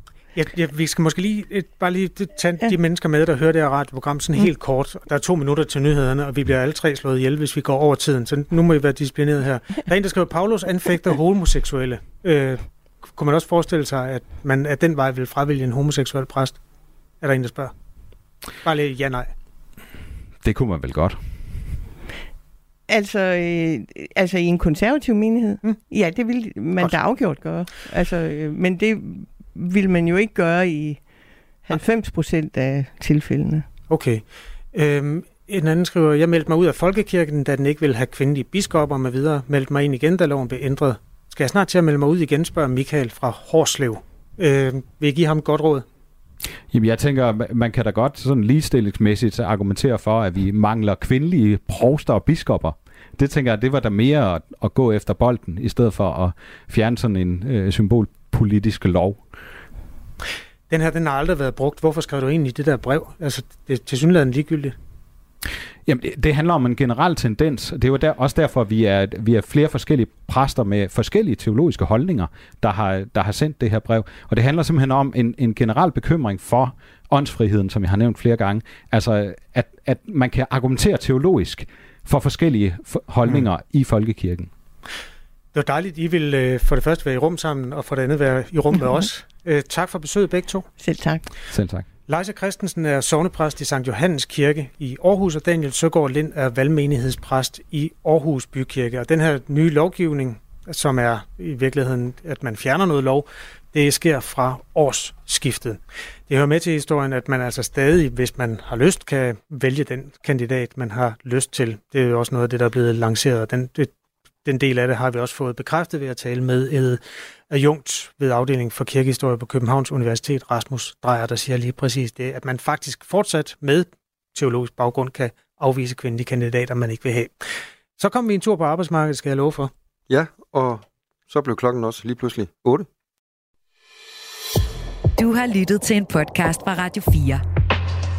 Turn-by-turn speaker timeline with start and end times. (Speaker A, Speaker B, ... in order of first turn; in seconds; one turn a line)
Speaker A: 0.3-12.6
Speaker A: 13.1-16.6
Speaker A: 17.2-17.7
Speaker A: 18.6-19.3
Speaker B: 20.4-21.2
Speaker C: 22.9-31.0
Speaker C: 31.7-33.6
Speaker A: 33.9-45.8
Speaker B: 46.7-59.2
Speaker A: 60.7-64.8
Speaker B: 65.8-84.5
Speaker A: 85.5-90.7
Speaker C: 90.8-91.2
Speaker B: 91.5-91.8
Speaker A: 92.1-113.9
Speaker A: 114.4-127.3
Speaker A: 128.0-129.7
Speaker D: 130.1-132.9
Speaker E: 135.2-137.4